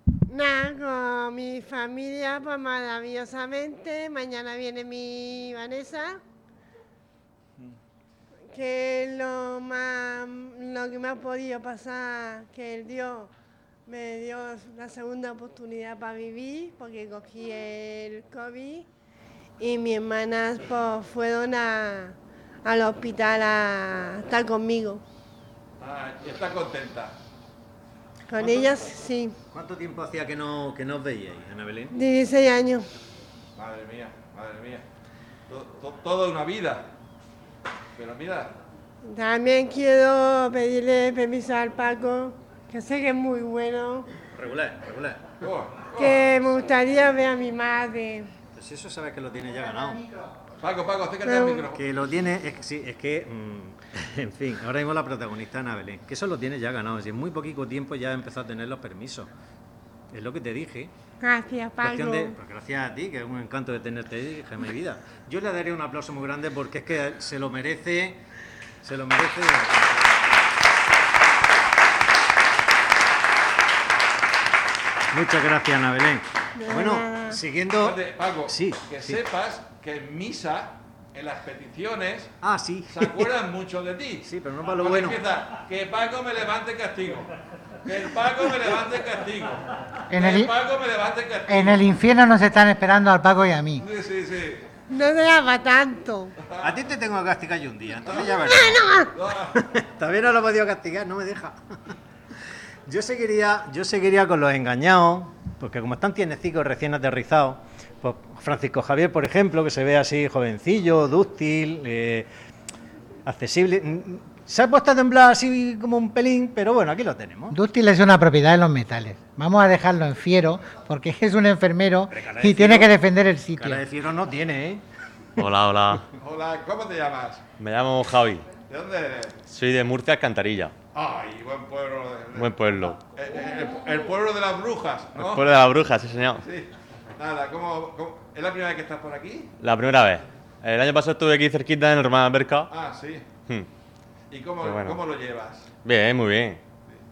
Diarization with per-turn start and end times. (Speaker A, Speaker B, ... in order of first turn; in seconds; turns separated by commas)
Speaker A: 0.3-6.2, Speaker A: 8.5-13.3, Speaker A: 13.9-18.9, Speaker A: 19.6-25.0, Speaker B: 25.8-27.2, Speaker A: 28.3-29.4, Speaker C: 28.4-28.7, Speaker C: 29.5-31.9, Speaker A: 31.9-32.9, Speaker B: 33.6-34.8, Speaker B: 35.5-36.9, Speaker B: 38.0-38.5, Speaker A: 39.0-44.1, Speaker C: 44.3-45.3, Speaker B: 45.4-46.2, Speaker A: 46.0-48.3, Speaker C: 48.5-50.1, Speaker B: 50.6-51.8, Speaker A: 51.2-51.7, Speaker C: 51.7-59.3, Speaker C: 60.1-60.9, Speaker A: 61.2-62.4, Speaker C: 61.8-68.2, Speaker C: 68.8-70.2, Speaker C: 75.1-79.2, Speaker A: 76.6-77.4, Speaker B: 77.8-82.3, Speaker C: 82.4-83.3, Speaker B: 82.9-87.3, Speaker C: 84.2-85.2, Speaker B: 87.8-91.8, Speaker D: 90.1-90.5, Speaker D: 91.5-93.9, Speaker B: 93.8-94.7, Speaker A: 94.9-96.3, Speaker C: 96.6-98.9, Speaker A: 98.4-99.1, Speaker B: 99.1-99.6, Speaker C: 99.5-101.6, Speaker C: 102.9-112.3, Speaker C: 113.3-117.6, Speaker D: 117.5-123.8, Speaker C: 122.1-123.0, Speaker C: 123.6-124.8, Speaker E: 125.4-126.0, Speaker B: 126.2-127.4, Speaker E: 127.6-128.5, Speaker B: 128.7-129.4, Speaker E: 129.5-130.7, Speaker B: 130.9-135.5, Speaker E: 132.4-133.0, Speaker E: 135.2-136.4, Speaker B: 136.4-139.5, Speaker E: 139.6-142.7, Speaker B: 142.7-143.3, Speaker B: 144.3-145.7, Speaker E: 144.7-145.0, Speaker E: 145.8-146.6